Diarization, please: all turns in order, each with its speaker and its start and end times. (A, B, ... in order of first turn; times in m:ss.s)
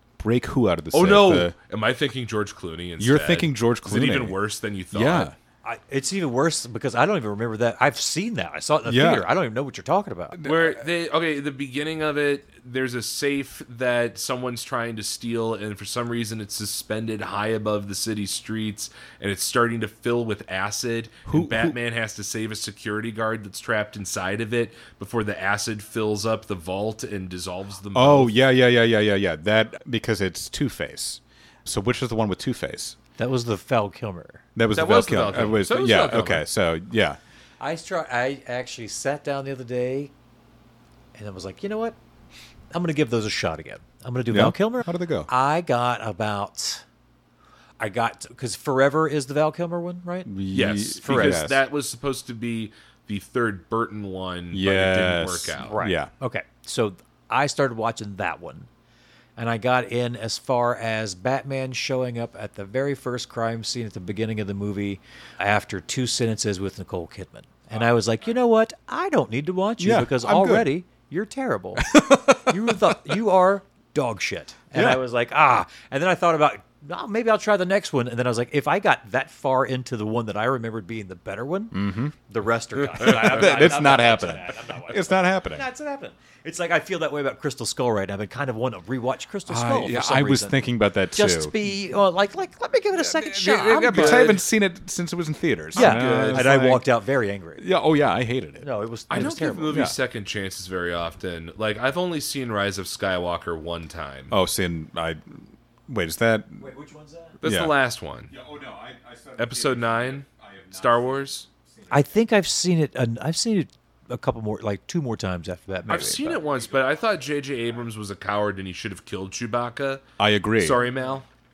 0:00.2-0:01.5 A
0:00.9-0:05.3 B
0:03.0-0:04.4 A
0:04.9-0:05.4 A
0:05.6-0:10.4 C
0:08.9-0:09.3 A
0:10.3-0:10.9 A
0:10.4-0:28.4 B
0:21.3-0:21.8 A
0:28.0-0:33.0 A
0:33.2-0:34.4 C
0:34.6-0:37.2 A
0:34.7-0:36.5 B
0:37.6-0:40.1 C
0:41.2-0:42.0 C
0:42.7-0:46.8 C
0:44.3-0:45.3 A
0:47.8-0:50.3 C
0:50.3-0:51.6 A
0:50.5-0:55.8 B
0:51.0-0:51.5 C
0:54.5-0:56.1 A
0:55.6-0:58.7 C
0:59.4-1:11.9 C
1:09.8-1:10.7 A
1:11.8-1:13.2 A
1:12.5-1:34.4 C
1:14.7-1:15.0 A
1:21.7-1:22.1 A
1:23.0-1:25.6 A
1:23.0-1:23.8 B
1:29.5-1:31.5 A
1:33.0-1:36.9 A
1:33.9-1:34.4 B
1:35.8-1:36.6 B
1:35.8-1:37.7 C
1:37.6-1:38.6 A
1:38.6-1:39.8 C
1:39.1-1:44.3 B
1:39.7-1:40.0 A
1:44.3-1:46.6 A
1:46.6-1:47.4 C
1:47.4-1:48.3 B
1:47.4-1:47.7 A
1:48.3-1:52.0 A
1:49.4-1:51.5 B
1:51.9-1:56.4 C
1:55.9-2:00.0 B
2:00.2-2:00.8 A
2:00.6-2:01.3 B